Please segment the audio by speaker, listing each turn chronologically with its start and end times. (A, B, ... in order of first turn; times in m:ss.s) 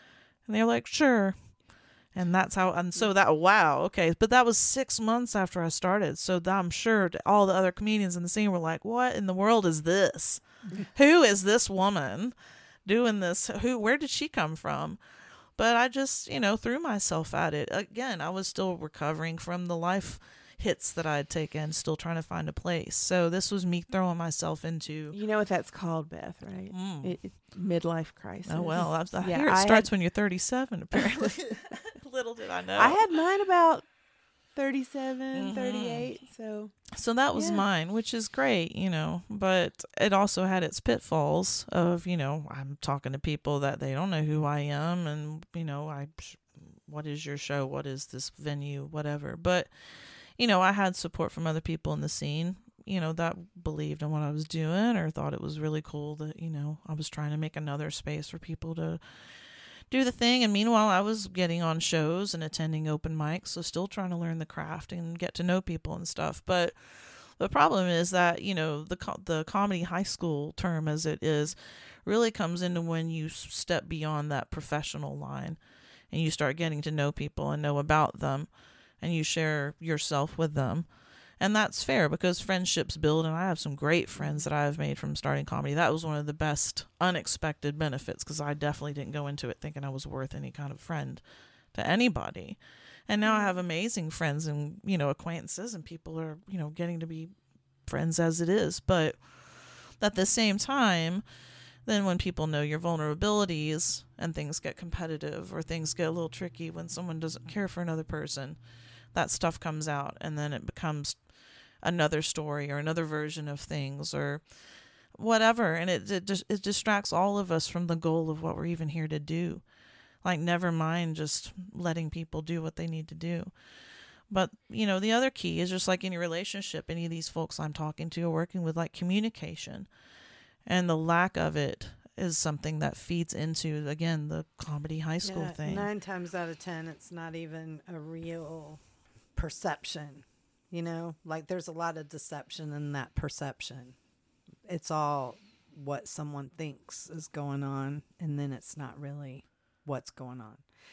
0:00.4-0:12.3 A
0:12.8-0:15.0 A
0:15.6-0:25.2 A
0:25.1-0:29.9 B
0:26.7-0:27.2 A
0:28.5-0:33.0 A
0:30.9-0:31.3 B
0:32.8-0:33.9 B
0:34.5-0:36.7 B
0:35.3-0:36.1 A
0:36.9-1:37.3 A
0:37.3-0:37.6 B
1:24.2-1:24.4 B
1:33.2-1:33.6 B
1:37.8-1:41.2 A
1:41.8-1:48.6 A
1:49.1-1:59.6 A
2:00.2-2:03.5 A
2:04.3-2:09.9 A
2:10.6-2:15.9 A
2:15.2-2:18.8 C
2:19.3-2:24.0 C
2:24.6-2:30.6 C